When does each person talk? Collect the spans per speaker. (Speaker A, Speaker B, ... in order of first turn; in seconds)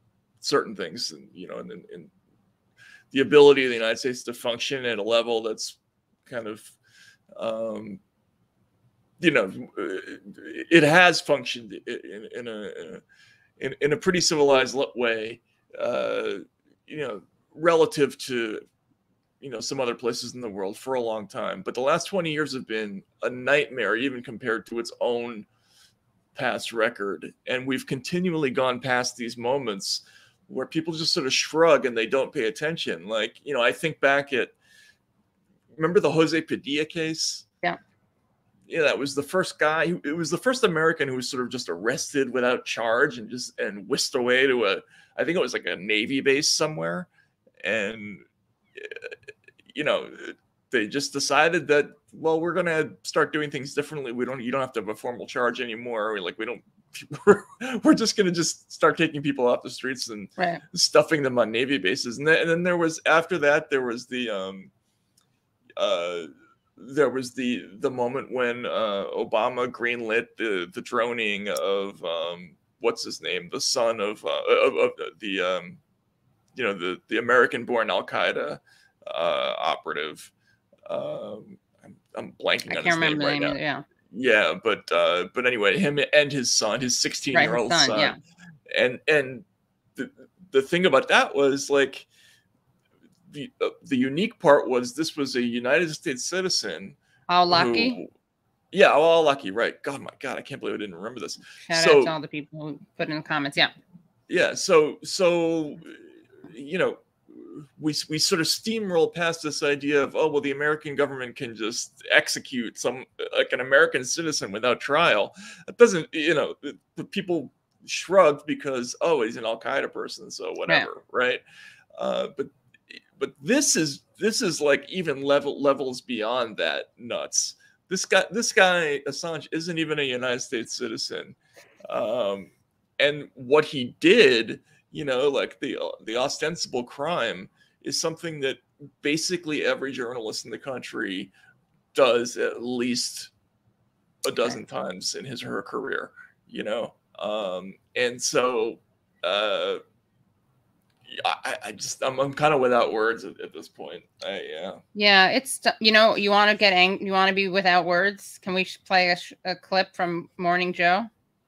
Speaker A: 0.4-2.1, 3.1-6.7, 7.4-8.0, 9.2-13.0, 13.6-18.6, 19.4-25.5, 26.4-34.5, 35.8-37.5, 38.7-47.1, 47.6-48.2, 49.7-64.7, 65.8-75.8, 76.6-80.3, 80.9-83.6, 84.1-88.2, 88.7-89.5, 90.0-92.1, 93.3-97.0, 97.5-98.1, 98.7-102.1, 104.3-121.4, 122.0-131.4, 131.9-141.3, 141.9-143.3, 144.2-149.8, 151.1-154.8
Speaker B: 82.7-83.8, 87.3-88.2, 97.3-98.0, 101.6-103.7, 154.9-161.1